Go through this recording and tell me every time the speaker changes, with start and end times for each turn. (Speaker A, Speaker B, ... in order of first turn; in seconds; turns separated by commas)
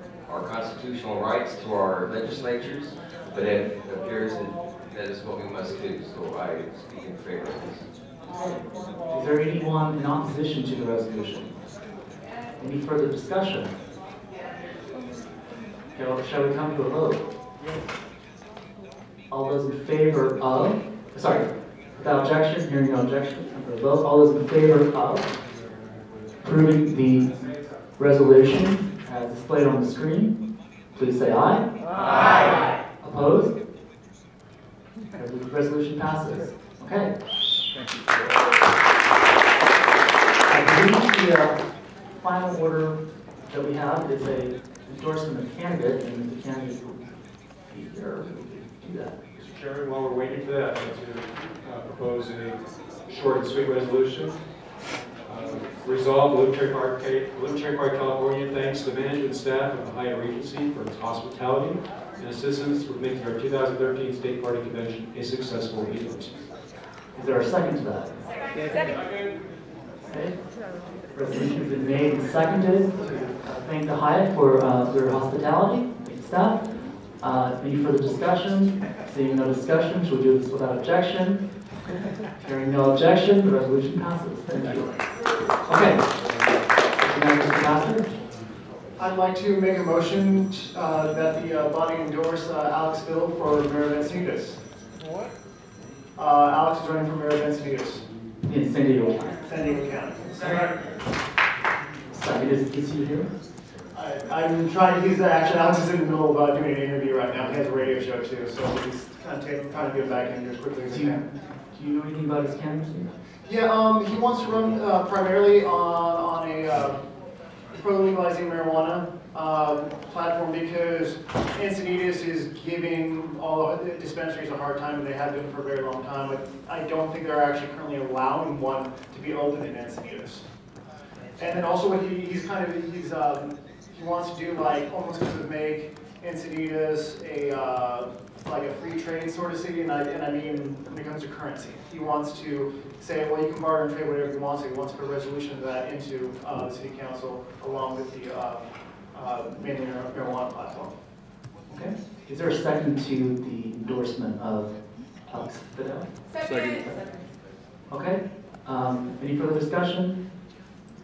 Speaker A: 0.3-7.8, Speaker B: 8.3-11.5, Speaker B: 12.6-13.7, Speaker B: 15.9-17.2, Speaker B: 19.3-25.3, Speaker B: 26.4-27.3, Speaker B: 28.0-30.3, Speaker B: 30.9-31.7, Speaker B: 33.0-33.5, Speaker B: 35.1-37.1, Speaker B: 40.5-41.6, Speaker B: 42.2-43.0, Speaker B: 43.5-47.0, Speaker B: 47.7-49.1, Speaker C: 49.4-54.4, Speaker C: 55.2-66.3, Speaker B: 67.1-68.2, Speaker B: 70.1-70.4, Speaker B: 71.1-76.6, Speaker B: 77.2-81.4, Speaker B: 82.4-85.0, Speaker B: 85.7-86.0, Speaker B: 87.0-88.1, Speaker D: 89.0-94.6, Speaker D: 96.2-98.0, Speaker B: 98.4-99.3, Speaker D: 99.4-100.9, Speaker B: 102.1-103.3, Speaker D: 103.9-111.2, Speaker B: 110.9-113.1, Speaker D: 113.4-117.0, Speaker D: 117.7-130.4, Speaker D: 131.4-150.9, Speaker B: 151.7-154.7, Speaker B: 155.3-157.0, Speaker B: 157.9-160.2